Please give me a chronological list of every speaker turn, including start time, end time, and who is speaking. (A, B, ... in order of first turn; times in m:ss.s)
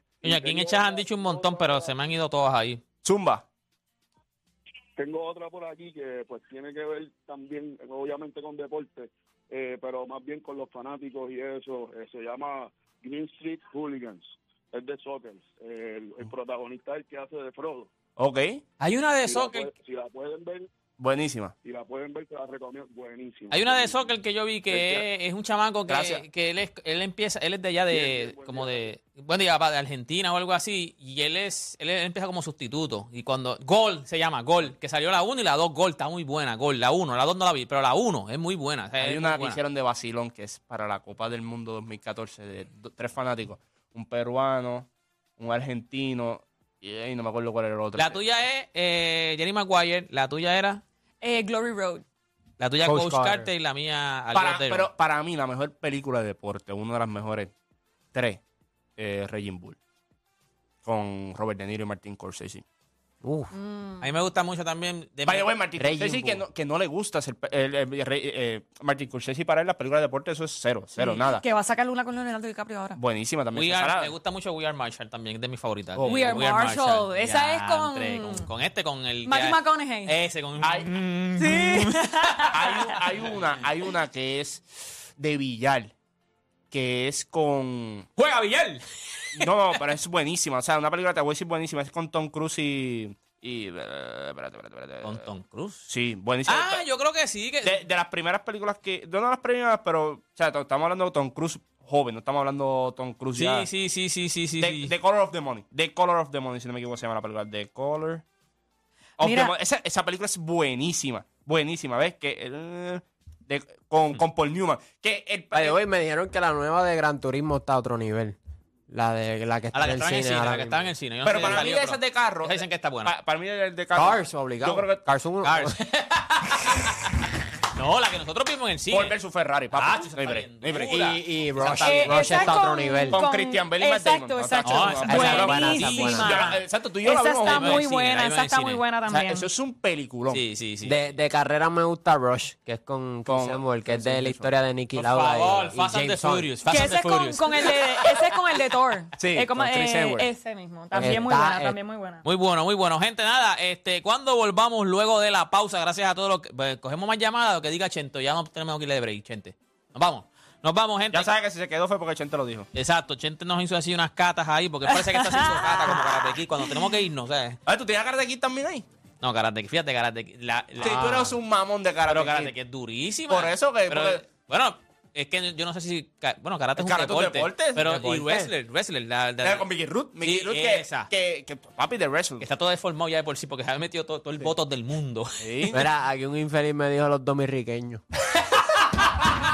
0:00.2-0:02.8 A
0:00.2-0:01.9 B
0:03.0-0:03.4 C
0:05.0-0:17.9 B
0:18.2-0:18.6 C
0:18.8-0:19.7 A
0:19.2-0:20.7 B
0:21.0-0:21.5 C
0:21.6-0:24.0 B
0:23.5-0:39.6 A
0:24.7-0:25.0 B
0:25.9-0:26.2 C
0:27.9-0:28.9 B
0:39.0-0:48.4 C
0:48.0-0:50.8 A
0:51.2-0:52.0 D
0:52.6-0:54.9 A
0:52.8-0:53.5 E
0:54.3-0:57.5 C
0:58.1-0:58.4 C
0:59.0-0:59.8 C
1:00.8-1:02.6 C
1:03.2-1:03.5 E
1:03.5-1:04.1 D
1:04.0-1:05.5 A
1:05.2-1:11.4 C
1:05.8-1:06.4 E
1:11.0-1:13.0 D
1:13.0-1:14.1 C
1:13.5-1:22.5 A
1:15.9-1:16.5 C
1:16.0-1:18.5 D
1:19.2-1:20.1 D
1:20.6-1:20.9 C
1:21.4-1:23.0 D
1:22.5-1:24.6 C
1:25.2-1:25.9 C
1:26.7-1:28.1 C
1:28.2-1:28.8 A
1:29.4-1:35.2 C
1:35.0-1:35.9 A
1:35.9-1:36.8 C
1:36.4-1:37.7 A
1:37.6-1:43.7 C
1:43.3-1:44.9 A
1:44.6-1:48.2 C
1:49.2-1:55.8 C
1:49.2-1:49.5 D
1:55.5-1:58.4 E
1:58.9-2:00.8 E
1:59.7-2:03.1 A
2:01.2-2:05.0 C
2:03.9-2:05.7 E
2:05.4-2:07.0 A
2:07.7-2:09.1 A
2:08.9-2:11.1 C
2:09.7-2:12.6 A
2:10.7-2:13.2 E
2:11.8-2:19.5 D
2:13.1-2:17.9 C
2:14.6-2:16.5 A
2:15.0-2:16.4 E
2:17.4-2:18.8 A
2:19.1-2:20.4 C
2:20.3-2:21.0 A
2:20.8-2:26.6 E
2:23.2-2:24.6 C
2:24.9-2:28.3 A
2:26.6-2:32.2 D
2:29.2-2:30.3 C
2:30.9-2:31.8 E
2:31.0-2:31.3 A
2:32.2-2:41.3 A
2:41.1-2:42.7 C
2:42.7-2:47.6 A
2:45.0-2:46.2 D
2:47.7-2:48.8 C
2:49.2-2:51.4 A
2:50.8-2:52.5 C
2:52.1-2:59.6 A
2:53.3-2:54.2 C
2:56.8-2:57.9 C
2:57.8-2:58.5 E
2:59.4-3:02.4 C
3:00.2-3:01.1 A
3:02.4-3:05.7 A
3:05.4-3:05.8 C
3:05.7-3:08.0 E